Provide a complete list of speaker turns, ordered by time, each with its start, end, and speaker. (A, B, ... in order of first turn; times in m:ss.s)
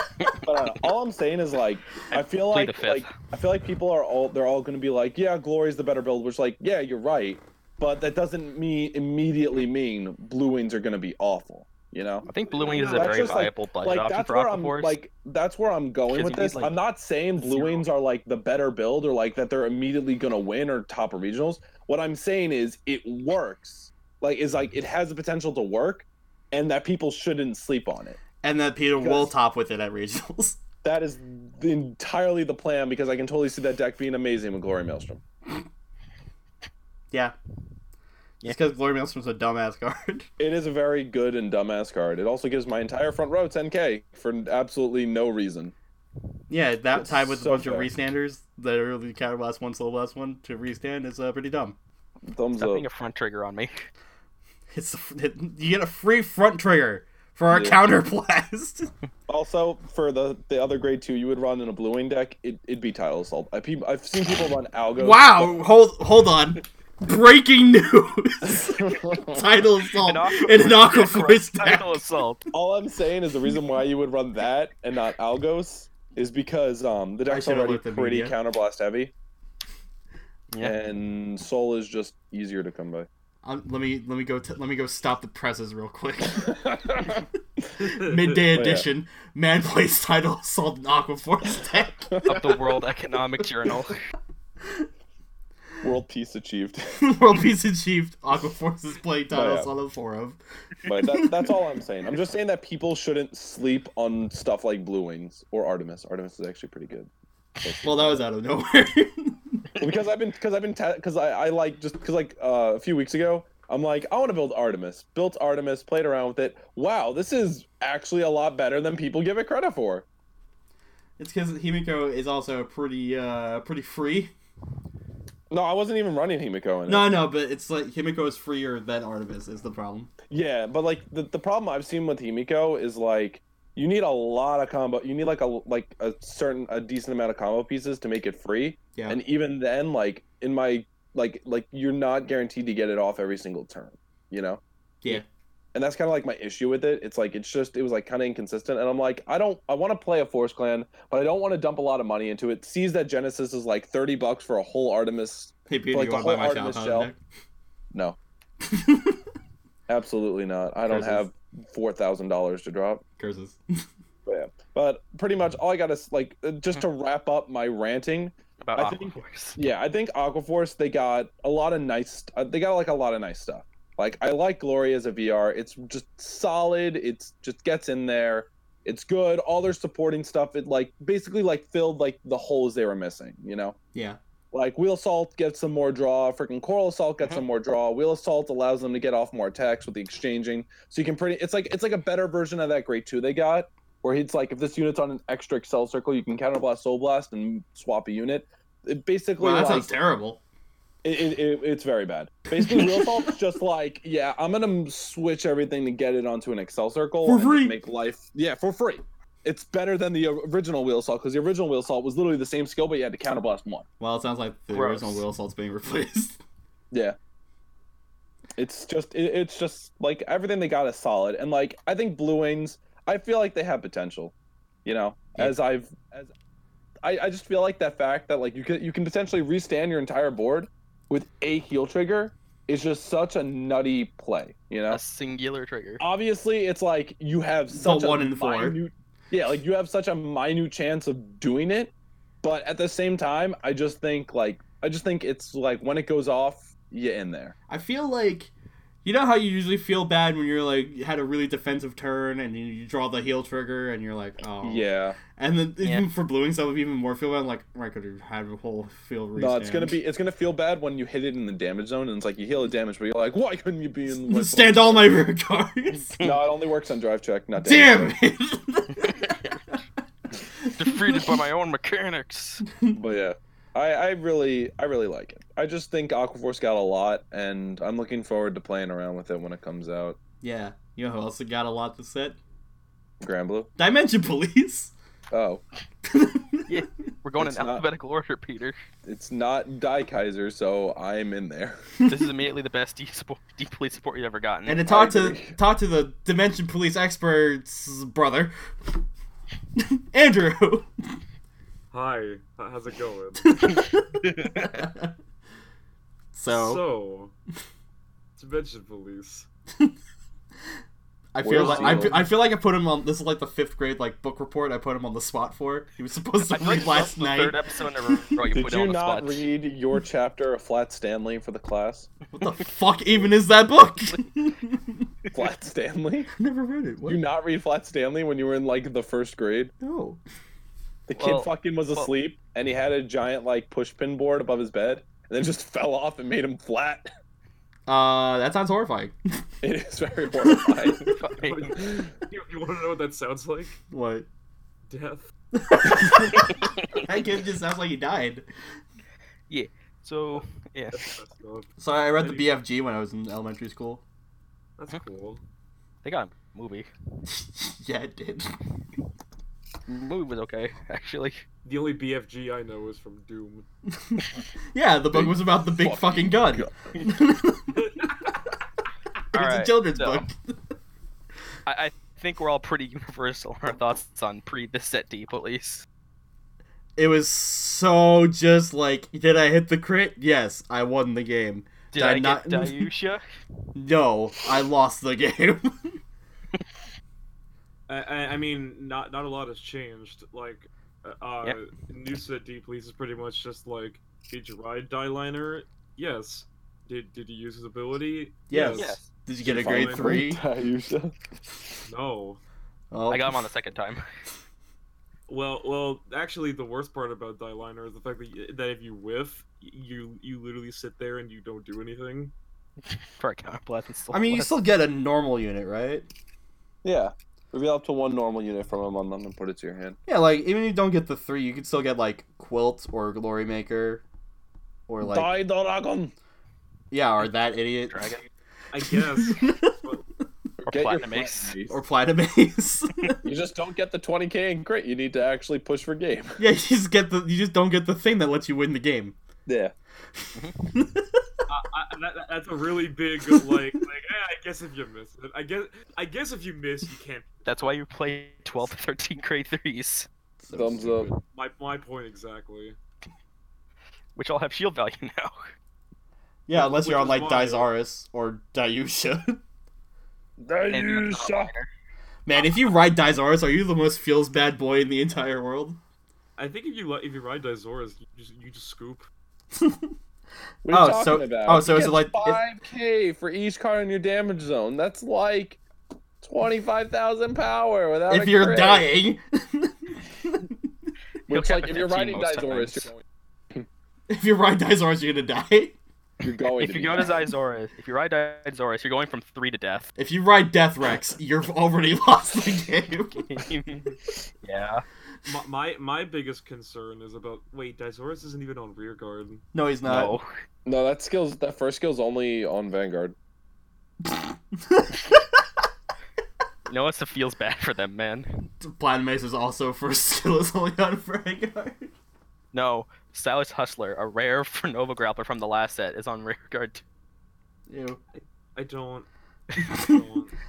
0:00.4-0:28.2 A
0:02.1-0:03.1 B
0:12.3-0:15.0 B
0:12.5-0:13.4 C
0:16.1-0:16.8 B
0:17.4-0:17.8 B
0:28.4-0:30.6 D
0:29.0-0:29.3 A
0:30.8-0:35.2 A
0:38.4-0:40.3 D
0:40.4-0:45.7 A
0:46.5-0:51.8 D
0:46.9-0:47.9 A
0:52.2-0:52.9 A
0:52.6-0:53.9 B
0:54.7-0:58.9 D
0:57.5-0:57.8 A
0:59.3-1:05.6 A
1:05.0-1:12.0 D
1:08.4-1:09.4 A
1:10.0-1:12.5 B
1:12.5-1:19.1 A
1:17.3-1:18.4 D
1:20.6-1:23.1 A
1:23.4-1:27.2 D
1:26.3-1:27.2 A
1:27.8-1:32.3 D
1:27.8-1:28.4 C
1:28.5-1:28.9 A
1:32.1-1:32.4 A
1:32.3-1:34.0 B
1:35.8-1:36.9 A
1:37.0-1:40.4 D
1:39.3-1:39.7 A
1:40.9-1:47.1 A
1:40.9-1:41.5 D
1:47.6-1:48.2 A
1:47.8-1:49.7 D
1:49.8-2:00.1 A
2:01.2-2:04.3 D
2:05.5-2:07.1 A
2:06.9-2:10.1 D
2:10.3-2:25.2 A
2:25.7-2:37.1 A
2:35.7-2:37.2 D
2:37.9-2:38.2 A
2:38.6-2:39.2 D
2:39.9-2:43.0 A
2:40.9-2:41.2 D
2:43.2-2:43.9 D
2:44.3-3:03.8 A
2:48.6-2:49.6 B
3:03.9-3:04.2 D
3:04.5-3:19.9 A
3:19.4-3:20.4 D
3:21.0-3:33.9 A
3:22.5-3:23.3 D
3:27.2-3:27.8 D
3:34.0-3:36.4 D
3:34.7-3:35.2 B
3:36.9-3:37.2 A
3:38.6-3:44.3 A
3:44.8-3:46.3 A
3:47.0-3:55.0 A
3:54.9-3:56.0 B
3:56.0-4:01.9 A
3:57.7-3:58.8 D
4:02.4-4:07.6 A
4:07.7-4:08.5 D
4:09.0-4:19.9 D
4:14.6-4:15.2 A
4:19.4-4:25.2 A
4:24.2-4:26.2 D
4:26.2-4:28.2 A
4:27.6-4:29.4 D
4:29.0-4:29.6 B
4:30.4-4:31.4 D
4:30.8-4:32.6 B
4:32.9-4:40.2 A
4:40.4-4:42.4 D
4:43.2-4:43.7 A
4:43.8-4:44.9 D
4:45.3-4:45.6 A
4:46.0-4:46.7 D
4:46.7-4:48.8 B
4:47.4-4:47.8 A
4:49.1-4:51.9 A
4:52.1-4:54.8 B
4:54.7-4:58.6 D
4:54.9-4:55.6 A
4:59.8-5:00.9 D
5:01.9-5:03.8 C
5:03.5-5:05.1 D
5:04.2-5:04.8 B
5:06.3-5:06.8 D
5:06.5-5:07.3 C
5:08.4-5:09.5 C
5:11.3-5:17.6 D
5:11.4-5:12.2 A
5:11.6-5:12.1 C
5:16.5-5:19.5 B
5:18.1-5:18.4 D
5:18.5-5:22.1 A
5:22.3-5:25.1 D
5:25.3-5:26.3 A
5:26.4-5:27.2 D
5:27.0-5:29.7 A
5:29.8-5:30.2 D
5:31.1-5:37.1 A
5:31.2-5:32.1 B
5:37.9-5:39.4 D
5:39.6-5:41.0 A
5:40.4-5:40.9 D
5:41.0-5:41.8 B
5:41.4-5:43.8 C
5:43.9-5:44.3 D
5:44.9-5:45.3 C
5:45.6-5:48.5 D
5:46.5-5:47.0 B
5:49.5-5:51.2 B
5:50.9-5:52.5 C
5:51.8-5:54.0 D
5:54.8-5:55.4 C
5:56.0-5:56.9 B
5:57.3-5:58.6 D
5:59.9-6:01.4 B
6:01.6-6:03.7 C
6:04.0-6:07.8 D
6:05.1-6:07.0 A
6:07.8-6:08.3 C
6:09.3-6:10.2 B
6:09.3-6:10.6 D
6:11.7-6:15.9 B
6:17.0-6:22.9 D
6:21.9-6:23.2 B
6:23.8-6:25.9 D
6:27.9-6:39.0 C
6:38.5-6:40.4 D
6:38.7-6:39.1 B
6:39.4-6:41.1 A
6:39.6-6:40.2 C
6:41.9-6:42.4 C
6:42.9-6:43.4 D
6:43.1-6:44.0 B
6:45.3-6:52.3 C
6:53.2-6:54.5 B
6:54.1-6:56.1 D
6:56.8-7:00.0 A
7:00.1-7:04.0 D
7:04.9-7:05.3 D
7:05.0-7:06.1 A
7:06.9-7:08.1 D
7:07.9-7:08.3 B
7:08.7-7:10.0 C
7:08.8-7:09.7 D
7:10.6-7:11.6 B
7:10.6-7:11.8 A
7:11.7-7:13.2 D
7:13.2-7:16.4 A
7:16.4-7:19.2 D
7:19.5-7:19.7 A
7:20.2-7:21.2 D
7:21.5-7:27.5 C
7:27.4-7:30.1 B
7:30.4-7:31.2 D
7:30.5-7:31.1 A
7:31.3-7:32.8 C
7:34.2-7:35.4 B
7:36.5-7:39.4 D
7:36.5-7:37.7 C
7:40.4-7:41.5 A
7:40.7-7:41.7 B
7:42.3-7:45.8 D
7:46.4-7:49.1 C
7:49.5-7:50.0 D
7:50.6-7:55.6 A
7:50.7-7:52.4 D
7:56.2-7:58.9 A
7:58.1-8:00.5 D
8:01.3-8:02.9 B
8:01.3-8:03.7 A
8:04.1-8:05.8 D
8:06.2-8:07.3 A
8:06.6-8:09.9 B
8:10.0-8:13.3 D
8:13.2-8:14.8 B
8:15.3-8:19.4 C
8:19.5-8:20.2 D
8:19.9-8:20.3 B
8:20.6-8:23.2 A
8:24.0-8:25.2 D
8:26.7-8:28.4 B
8:28.6-8:31.9 D
8:32.5-8:36.8 B
8:37.7-8:38.0 D
8:38.1-8:40.4 C